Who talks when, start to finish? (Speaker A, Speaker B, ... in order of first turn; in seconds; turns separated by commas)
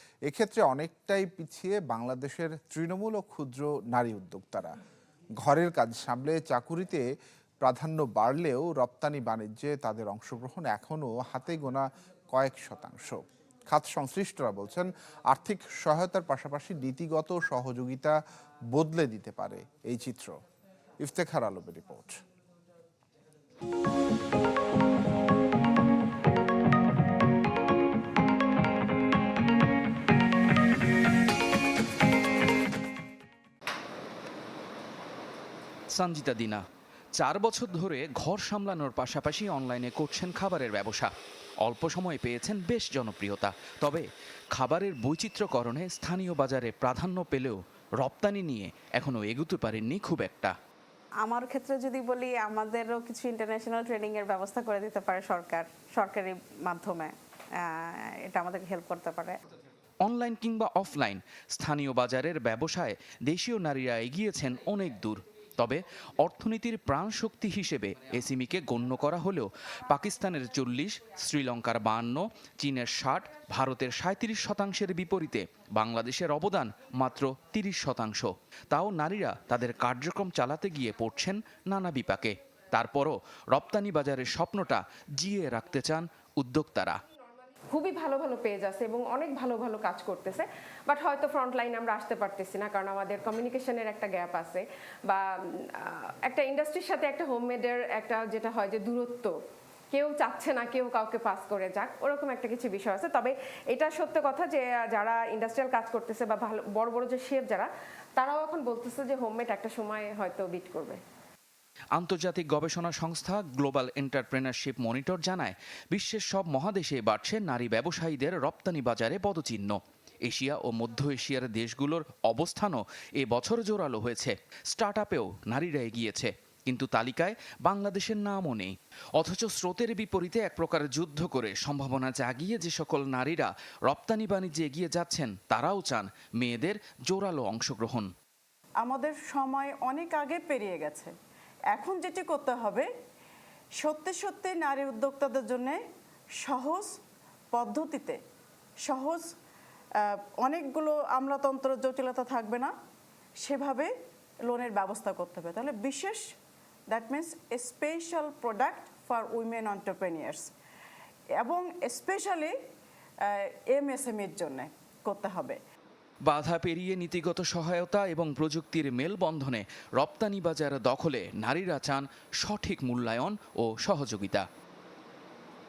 Speaker A: 0.3-4.7, Speaker A: 5.4-7.0, Speaker A: 7.6-13.2, Speaker A: 13.7-18.1, Speaker A: 18.7-20.4, Speaker A: 21.0-22.2, Speaker B: 35.9-36.6, Speaker B: 37.2-41.1, Speaker B: 41.6-50.5, Speaker C: 51.2-59.4, Speaker B: 60.0-87.0, Speaker D: 87.7-99.3, Speaker D: 99.9-111.0, Speaker B: 112.0-138.1, Speaker E: 138.8-141.1, Speaker E: 141.7-142.9, Speaker E: 143.8-145.8, Speaker E: 146.4-146.9, Speaker E: 147.5-148.2, Speaker E: 148.8-149.3, Speaker E: 150.0-152.7, Speaker E: 153.4-153.9, Speaker E: 154.4-156.2, Speaker E: 156.9-160.5, Speaker E: 161.4-162.5, Speaker E: 163.2-165.6, Speaker B: 166.2-174.4